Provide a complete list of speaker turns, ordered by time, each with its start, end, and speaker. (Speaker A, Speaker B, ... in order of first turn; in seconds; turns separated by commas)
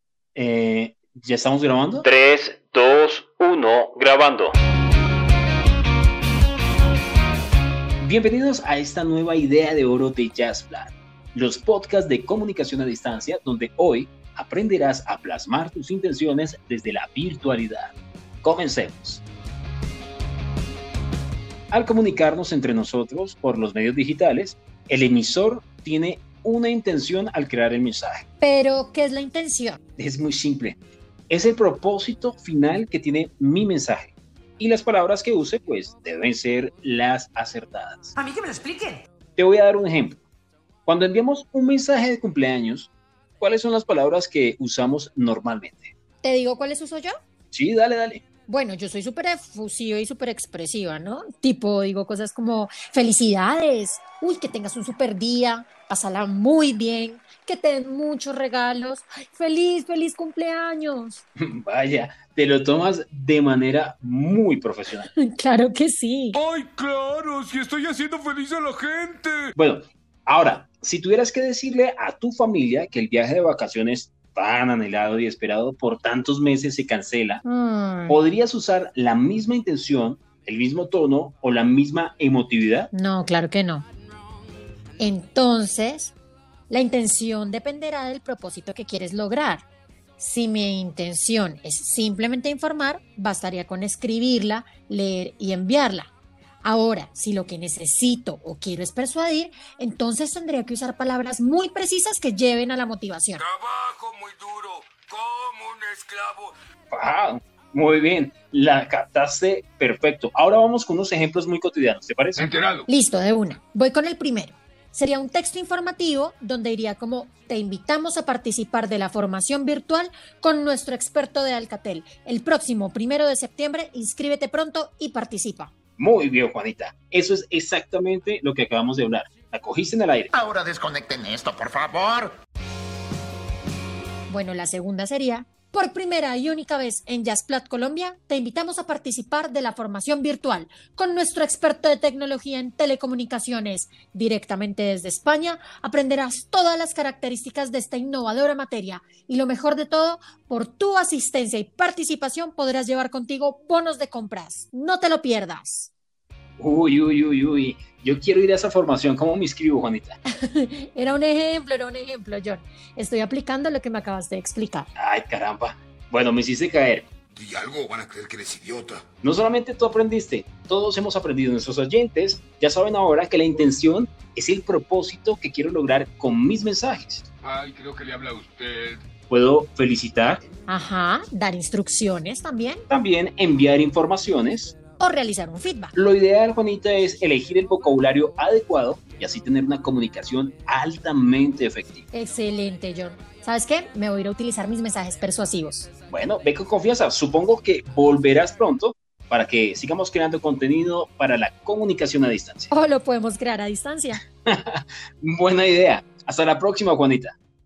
Speaker A: 0.3-2.0, Speaker B: 2.1-4.5, Speaker C: 2.1-3.5, Speaker C: 4.1-4.5, Speaker A: 8.0-19.2, Speaker A: 21.7-28.2, Speaker D: 28.4-29.8, Speaker A: 30.0-30.8, Speaker A: 31.3-38.1, Speaker B: 38.2-39.0, Speaker A: 39.4-40.2, Speaker A: 40.9-45.9, Speaker D: 46.2-47.1, Speaker A: 47.5-48.2, Speaker D: 48.5-61.2, Speaker A: 61.4-65.1, Speaker D: 65.1-66.4, Speaker C: 66.3-69.5, Speaker A: 69.5-77.4, Speaker D: 77.4-78.2, Speaker A: 78.1-82.9, Speaker D: 82.9-83.9, Speaker D: 85.0-86.1, Speaker D: 86.7-89.6, Speaker D: 90.2-96.1, Speaker D: 96.6-103.4, Speaker C: 103.4-106.5, Speaker A: 106.9-112.5, Speaker C: 112.3-112.9, Speaker D: 112.9-125.7, Speaker A: 126.0-130.3, Speaker E: 130.3-132.3, Speaker D: 134.3-155.9, Speaker A: 156.6-160.2, Speaker D: 160.4-164.9, Speaker A: 164.9-167.1, Speaker C: 167.3-169.0, Speaker A: 169.2-177.2, Speaker C: 177.4-179.0, Speaker A: 179.3-180.4, Speaker D: 180.7-182.8, Speaker A: 182.9-184.7, Speaker D: 185.0-185.9, Speaker A: 185.9-192.1, Speaker D: 192.1-195.9, Speaker A: 196.1-202.7, Speaker D: 202.7-204.2, Speaker A: 204.4-207.3